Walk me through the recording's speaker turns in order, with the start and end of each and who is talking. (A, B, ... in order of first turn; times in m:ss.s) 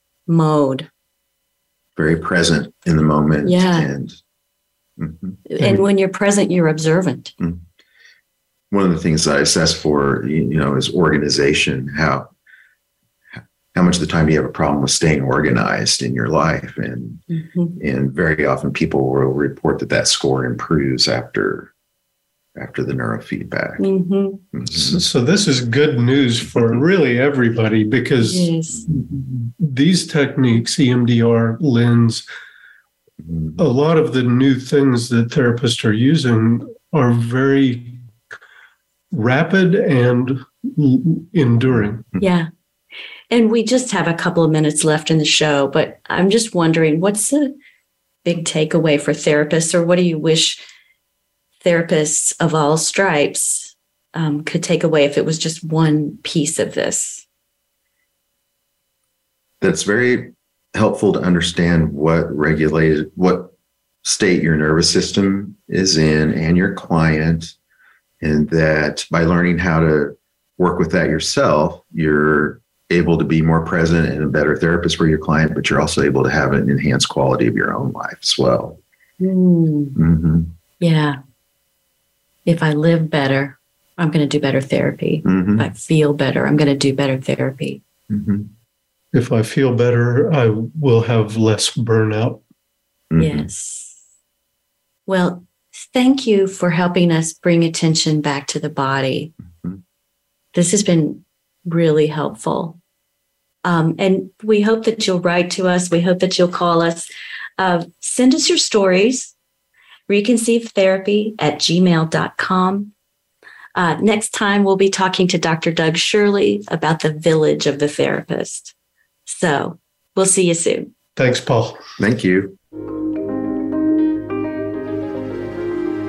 0:00.3-0:00.9 A
0:02.0-0:04.2 B
0:03.4-0:03.9 A
0:05.0-0:05.4 B
0:05.5-0:07.3 A
0:05.6-0:05.8 C
0:07.4-0:07.6 B
0:08.7-0:12.3 B
0:13.7-0:17.2 B
0:17.3-0:17.8 A
0:17.8-0:21.7 B
0:22.6-0:23.8 B
0:23.8-0:24.4 A
0:24.5-0:25.0 B
0:24.7-0:32.2 C
0:26.5-0:26.8 B
0:28.2-0:28.9 A
0:28.8-0:29.2 B
0:33.2-0:33.6 B
0:33.6-0:38.0 C
0:39.1-0:42.0 C
0:41.7-0:42.2 B
0:42.2-0:42.5 A
0:43.3-0:47.5 A
0:48.2-0:50.6 A
0:51.6-0:57.2 A
0:59.6-1:03.5 B
1:04.0-1:07.5 B
1:08.2-1:18.8 B
1:19.2-1:20.0 A
1:20.0-1:20.5 B
1:20.8-1:21.2 A
1:22.4-1:27.8 A
1:25.2-1:25.7 B
1:28.1-1:28.5 B
1:29.1-1:32.4 C
1:33.1-1:33.5 B
1:33.2-1:34.0 A
1:35.1-1:39.3 A
1:40.5-1:42.8 A
1:43.6-1:49.3 A
1:50.1-1:52.9 A
1:53.7-1:58.7 A
1:59.2-2:00.9 A
2:01.2-2:01.8 C
2:02.0-2:02.6 B